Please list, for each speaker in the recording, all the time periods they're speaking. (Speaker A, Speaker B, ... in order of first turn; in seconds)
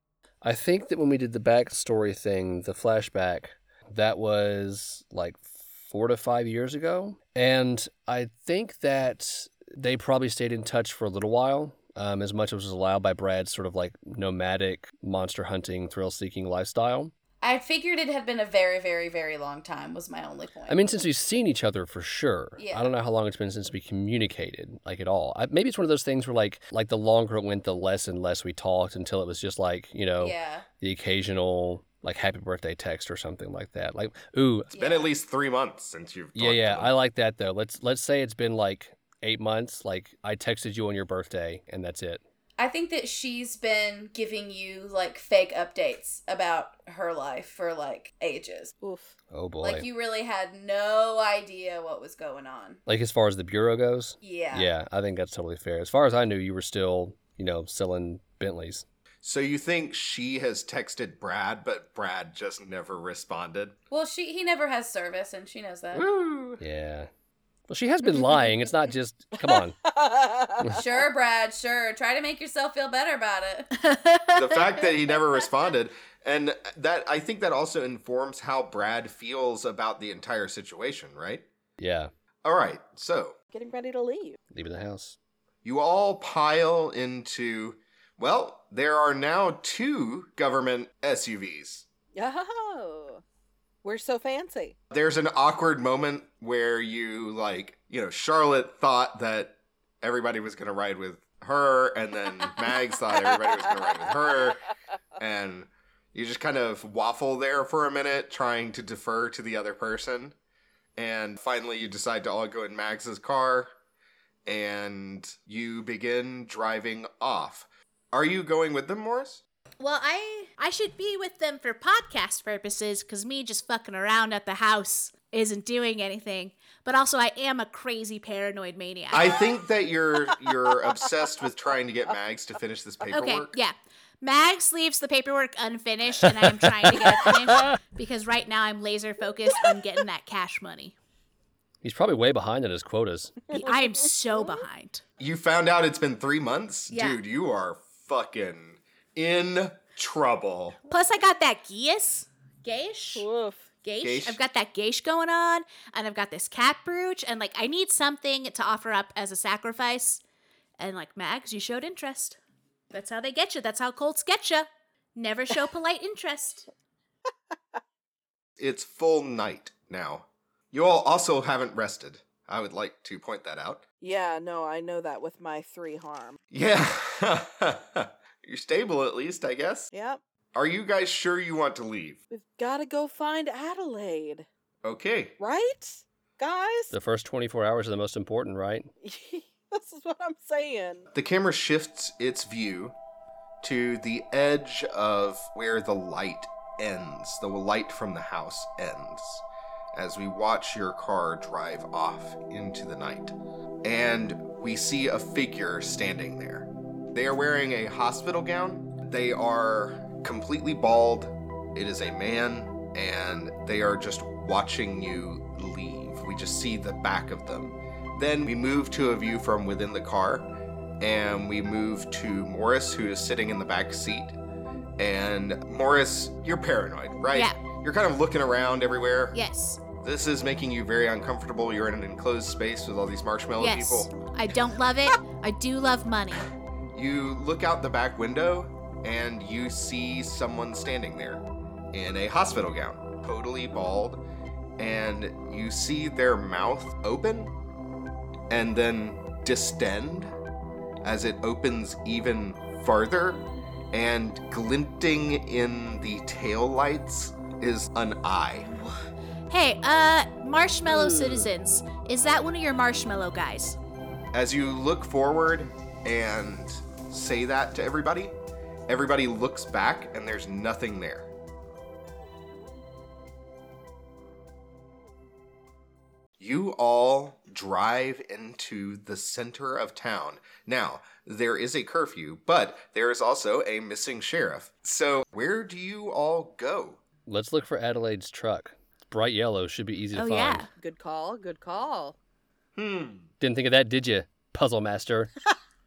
Speaker A: 0.4-17.1, 20.7-34.7, 36.4-42.2, 49.3-49.9, 52.9-58.9, 66.6-67.1, 67.7-69.8, 81.8-82.1, 84.5-85.2, 141.8-143.4, 186.9-188.9, 287.3-290.7, 293.4-295.3
Speaker B: 17.4-20.8, 22.6-22.9, 30.2-30.7, 34.7-35.1, 42.6-48.7, 49.6-52.8, 54.2-54.7, 63.9-66.1, 70.7-73.7
Speaker C: 34.8-37.0, 59.2-63.8, 65.9-66.6, 74.3-81.5, 82.4-83.4, 85.6-91.8, 94.9-104.6, 105.2-110.4, 111.0-113.7, 114.5-119.4, 129.1-133.6, 145.2-150.8, 154.0-154.4, 168.6-173.8, 176.5-179.9, 180.6-182.2, 184.8-185.4, 191.1-193.0, 193.6-220.5, 221.0-224.4, 225.0-229.4, 230.0-234.1, 236.9-244.2, 244.8-247.6, 248.5-250.3, 251.0-258.7, 264.3-268.4, 268.9-271.3, 276.4-287.0, 292.8-293.3
Speaker D: 48.8-49.1, 69.4-71.0, 83.5-84.4, 92.1-93.2, 93.8-94.8, 143.5-144.6, 153.2-153.7, 174.0-176.4, 179.9-180.2, 182.3-184.5, 185.4-186.9, 189.0-191.1, 290.8-292.2
Speaker E: 73.8-74.6, 119.8-129.3, 133.1-141.0, 143.5-145.0, 146.9-147.2, 150.9-153.3, 153.8-160.2, 160.8-162.4, 162.9-166.7, 227.3-227.6, 229.3-229.8, 233.6-236.5, 259.5-263.8, 290.1-290.7